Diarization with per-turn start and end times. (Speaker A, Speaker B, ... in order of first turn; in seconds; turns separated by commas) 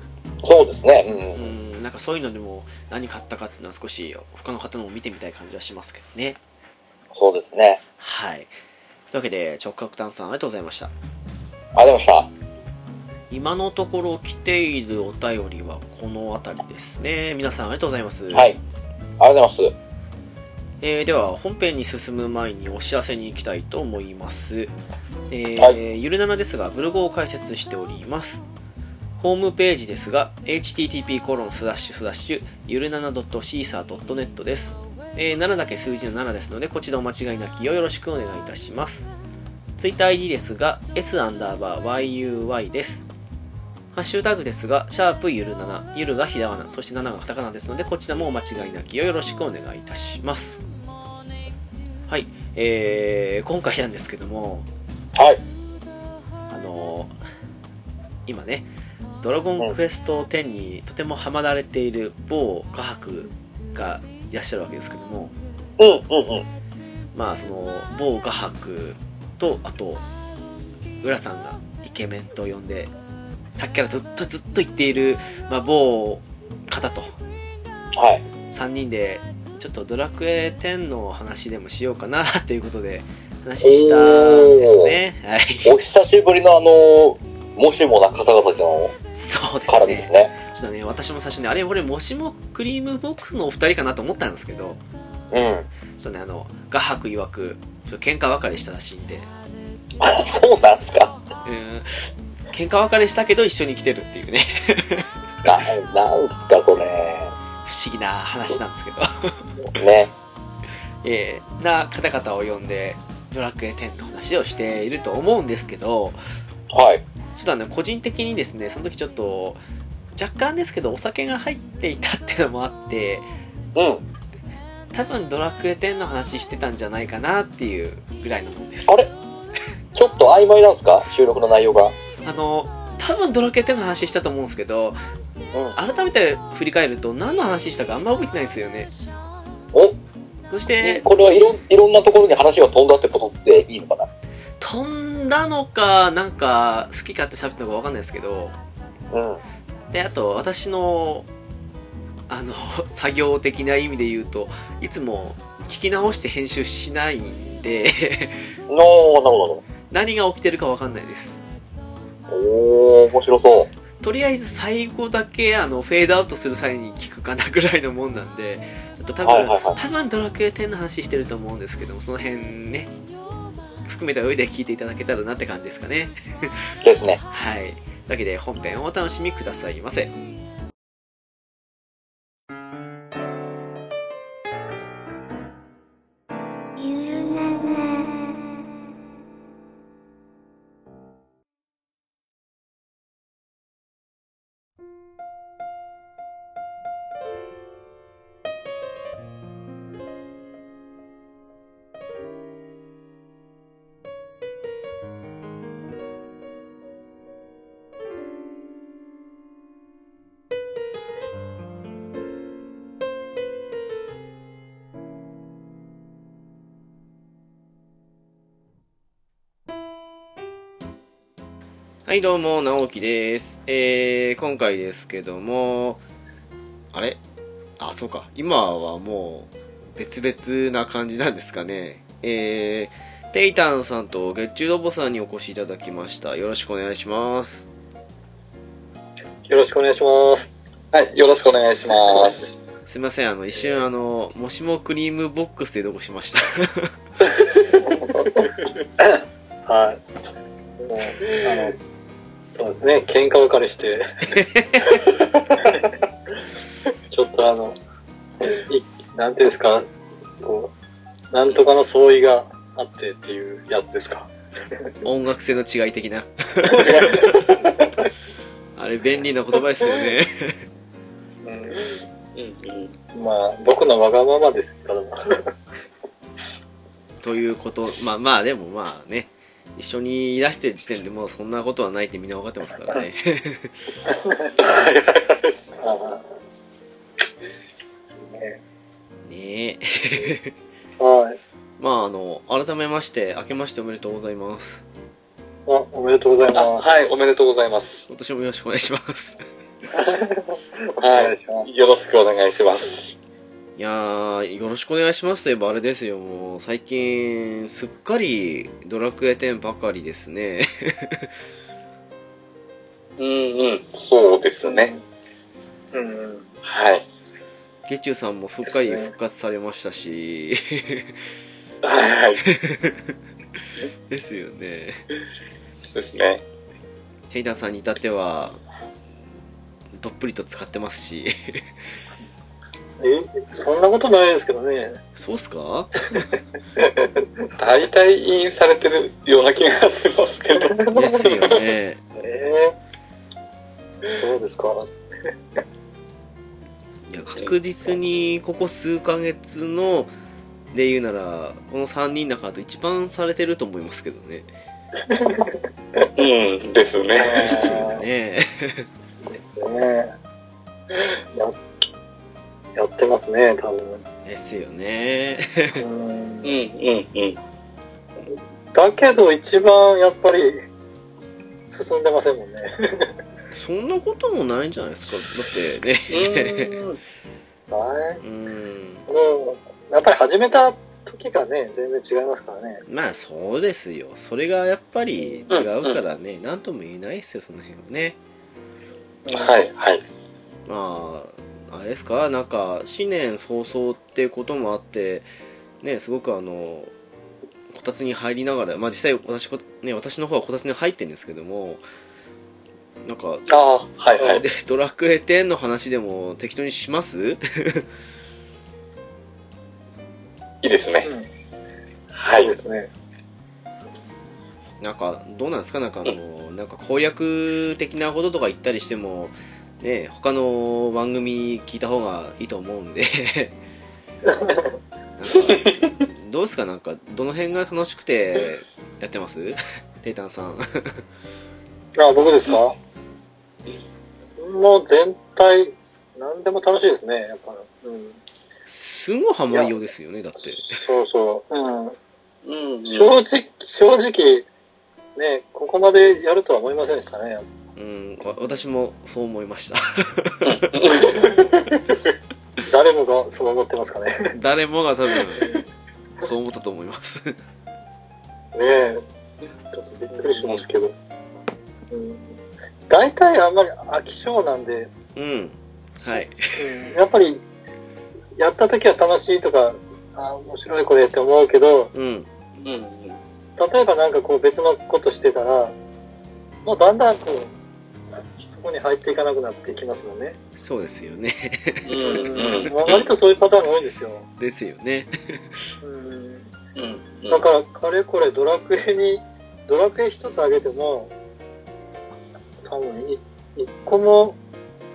Speaker A: 0.4-1.5, Speaker B: 1.3-6.4, Speaker A: 7.1-7.8, Speaker B: 8.0-8.5, Speaker B: 9.1-10.9, Speaker A: 11.7-12.3, Speaker B: 13.3-18.5, Speaker A: 18.3-18.6, Speaker A: 19.2-19.7, Speaker B: 20.8-24.7, Speaker B: 25.3-28.4, Speaker B: 29.2-39.1, Speaker B: 39.8-43.0, Speaker B: 43.9-50.6, Speaker B: 52.1-54.7, Speaker A: 55.1-55.4, Speaker B: 56.5-57.1, Speaker B: 58.2-58.7, Speaker B: 59.2-65.3, Speaker A: 65.8-66.5, Speaker B: 67.1-70.0, Speaker B: 71.0-72.9, Speaker B: 73.5-77.1, Speaker A: 77.9-78.2, Speaker B: 78.5-85.7, Speaker A: 83.6-84.9, Speaker A: 85.6-88.9, Speaker B: 89.1-94.8, Speaker A: 89.7-90.3, Speaker A: 95.3-95.7, Speaker B: 96.0-99.3, Speaker A: 100.0-101.2, Speaker B: 101.4-101.9, Speaker B: 102.5-105.5, Speaker A: 105.4-107.3, Speaker B: 107.6-109.4, Speaker A: 109.7-110.1, Speaker B: 111.0-116.2, Speaker A: 116.7-117.0, Speaker B: 117.3-119.6, Speaker B: 120.1-123.2, Speaker A: 123.7-124.0, Speaker B: 124.9-129.0, Speaker A: 129.9-131.9, Speaker B: 132.2-135.0, Speaker B: 135.8-138.9, Speaker B: 140.5-141.1, Speaker A: 140.8-144.1, Speaker B: 144.6-148.5, Speaker A: 149.1-149.4, Speaker B: 149.9-151.3, Speaker B: 152.3-158.4, Speaker A: 158.7-159.6, Speaker B: 159.9-161.4, Speaker A: 162.3-163.7, Speaker B: 164.0-172.9, Speaker A: 169.2-169.8, Speaker B: 173.8-176.7, Speaker A: 176.8-177.2, Speaker B: 177.3-180.1, Speaker B: 222.1-226.0, Speaker B: 226.9-227.2, Speaker B: 227.8-237.7, Speaker C: 239.5-240.5, Speaker D: 240.9-242.5, Speaker B: 242.9-246.9, Speaker C: 248.0-250.0, Speaker C: 250.8-251.8, Speaker C: 252.5-254.1, Speaker B: 254.3-255.0, Speaker C: 257.1-257.8, Speaker C: 258.5-259.9, Speaker C: 260.4-260.7, Speaker C: 261.3-264.3, Speaker B: 265.0-267.4, Speaker C: 266.7-267.6, Speaker B: 268.8-270.6, Speaker C: 271.4-271.8, Speaker D: 272.4-272.9, Speaker C: 273.1-275.5, Speaker B: 277.2-283.7, Speaker C: 284.2-284.5, Speaker D: 284.6-285.4, Speaker C: 285.8-286.2, Speaker C: 288.3-288.6, Speaker B: 289.2-290.5, Speaker C: 291.0-291.4, Speaker B: 291.8-294.8, Speaker C: 295.7-296.8, Speaker D: 296.5-298.1, Speaker B: 298.1-299.4, Speaker C: 299.9-301.7, Speaker D: 301.0-303.1, Speaker B: 303.8-311.3, Speaker D: 313.2-314.9, Speaker C: 315.9-316.5, Speaker D: 316.6-317.0, Speaker B: 317.9-321.2, Speaker D: 321.8-322.4, Speaker B: 322.4-323.1, Speaker B: 324.1-325.0, Speaker D: 325.9-326.4, Speaker B: 327.3-328.6, Speaker B: 330.0-331.6, Speaker C: 333.0-335.0, Speaker B: 335.1-336.2, Speaker C: 336.8-337.3, Speaker D: 337.6-341.6, Speaker C: 340.7-341.2, Speaker B: 340.9-342.0, Speaker C: 342.2-342.8, Speaker C: 344.1-344.9, Speaker B: 347.1-350.1, Speaker B: 350.7-354.5, Speaker C: 355.1-355.6, Speaker D: 356.1-357.7, Speaker C: 357.1-358.0, Speaker B: 357.3-358.9, Speaker C: 359.2-360.1, Speaker C: 362.8-364.0, Speaker B: 364.2-365.8, Speaker C: 365.8-366.5, Speaker D: 366.4-367.4, Speaker C: 368.3-370.6, Speaker C: 371.7-373.1, Speaker B: 373.5-376.8, Speaker D: 376.1-377.0, Speaker C: 377.7-378.2, Speaker B: 378.2-379.1, Speaker C: 379.1-382.8, Speaker B: 382.9-388.2, Speaker D: 385.5-386.0, Speaker C: 389.2-389.5, Speaker D: 389.3-390.0, Speaker B: 390.6-395.3, Speaker B: 395.8-396.9, Speaker B: 397.7-401.8, Speaker B: 403.0-403.4, Speaker D: 403.5-404.4, Speaker B: 404.2-407.9, Speaker D: 410.6-411.1, Speaker D: 412.1-412.6, Speaker C: 412.4-412.9, Speaker B: 414.8-423.6, Speaker C: 424.3-424.7, Speaker B: 425.2-431.0, Speaker D: 425.5-425.8, Speaker C: 432.0-432.8, Speaker C: 434.4-438.2, Speaker B: 438.7-440.8, Speaker C: 440.7-441.9, Speaker D: 442.4-443.1, Speaker C: 442.9-444.4, Speaker C: 445.1-447.4, Speaker B: 447.8-450.7, Speaker D: 450.4-451.6, Speaker C: 452.6-454.3, Speaker B: 454.3-455.5, Speaker B: 456.2-457.4, Speaker C: 458.5-459.0, Speaker C: 459.7-460.9, Speaker D: 460.3-460.6, Speaker C: 461.9-462.4, Speaker C: 462.9-464.9, Speaker B: 465.1-466.6, Speaker C: 466.1-467.4, Speaker C: 468.4-471.9, Speaker B: 471.9-472.3, Speaker D: 472.6-473.2, Speaker C: 473.6-475.7, Speaker C: 476.6-477.5, Speaker C: 478.4-480.4, Speaker B: 480.6-482.2, Speaker D: 481.9-483.1, Speaker C: 482.0-484.2, Speaker B: 484.4-485.7, Speaker C: 485.8-486.5, Speaker D: 486.8-487.4, Speaker C: 487.3-491.1, Speaker C: 492.6-494.4